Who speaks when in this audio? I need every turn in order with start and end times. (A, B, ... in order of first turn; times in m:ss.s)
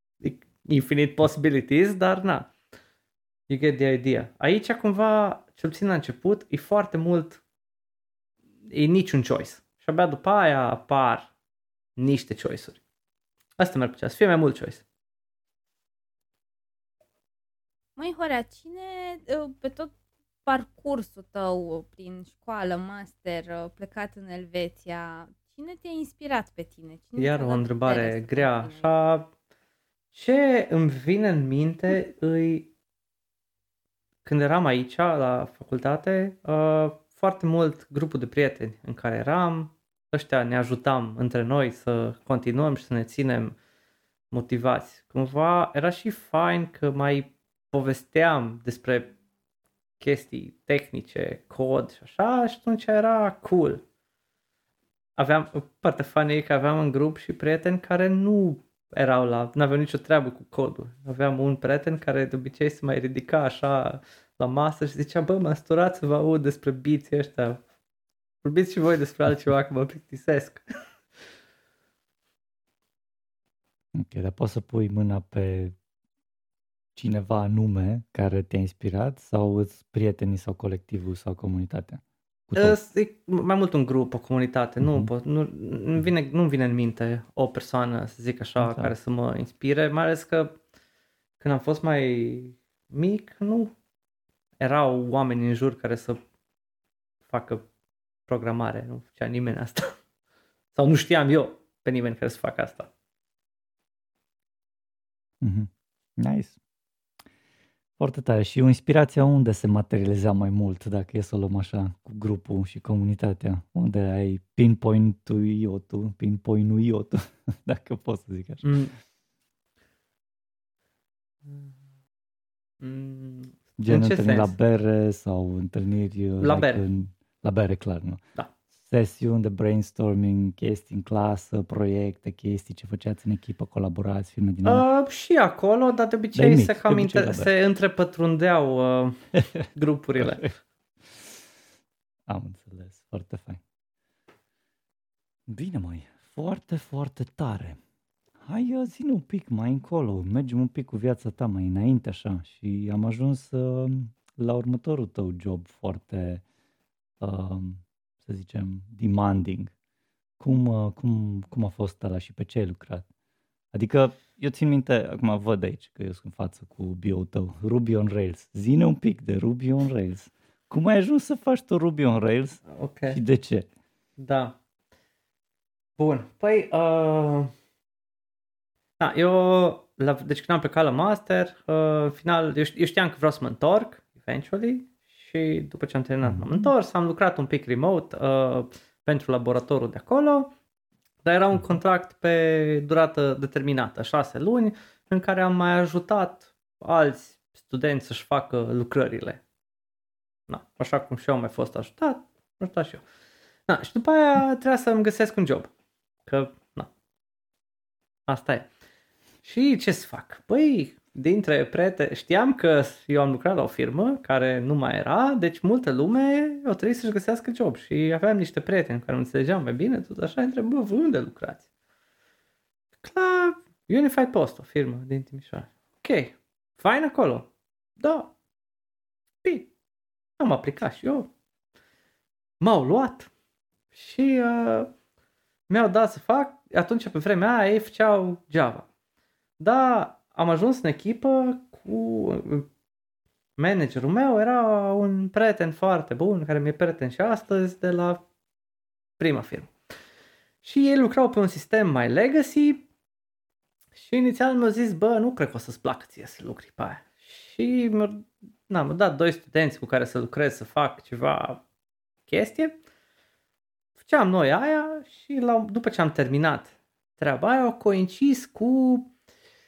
0:00.2-0:02.5 A
0:03.5-0:07.4 A
0:08.7-0:11.3 A
0:12.0-0:12.8 A
0:13.6-0:14.8 A
0:18.0-0:19.9 B
0:20.4-0:28.9 B
0:27.2-0:29.3 A
0:30.1-0:32.7 A
0:34.2-0:43.6 A
0:44.3-0:49.1 A
0:50.0-0:53.8 A
0:55.2-1:07.6 A
1:08.4-1:10.6 A
1:13.9-1:15.7 C
1:16.9-1:22.8 C
1:22.6-1:30.6 A
1:24.8-1:25.1 C
1:28.6-1:28.9 C
1:31.4-1:33.7 A
1:34.6-1:36.2 A
1:37.3-1:37.6 A
1:38.3-1:39.9 A
1:40.7-1:42.9 A
1:45.4-1:46.5 C
1:48.0-1:58.7 C
1:58.6-1:58.9 A
2:02.8-2:04.5 A
2:03.8-2:08.2 C
2:06.4-2:06.8 A
2:08.8-2:14.8 C
2:14.6-2:19.2 A
2:16.3-2:17.5 C
2:19.7-2:20.6 A
2:20.2-2:20.4 C
2:22.3-2:23.6 C
2:25.5-2:27.8 C
2:28.4-2:36.4 C
2:37.2-2:39.7 C
2:40.4-2:43.0 C
2:43.7-2:53.7 C
2:52.7-2:53.2 A
2:54.2-2:54.5 A
2:56.0-2:57.5 A
2:59.0-3:10.5 A
3:06.2-3:06.7 C
3:11.2-3:19.4 A
3:20.5-3:23.0 A
3:23.7-3:25.7 A
3:26.2-3:26.9 A
3:28.3-3:28.7 A
3:29.4-3:41.6 A
3:43.0-3:47.5 A
3:48.0-3:48.3 A
3:49.4-3:49.7 A
3:50.4-3:51.3 A
3:52.6-3:53.3 A
3:53.9-3:54.9 A
3:55.7-3:58.8 A
3:59.6-4:02.7 A
4:03.6-4:08.2 A
4:09.2-4:09.7 A
4:10.6-4:12.8 A
4:14.0-4:21.6 A
4:22.3-4:22.8 A
4:24.0-4:29.1 A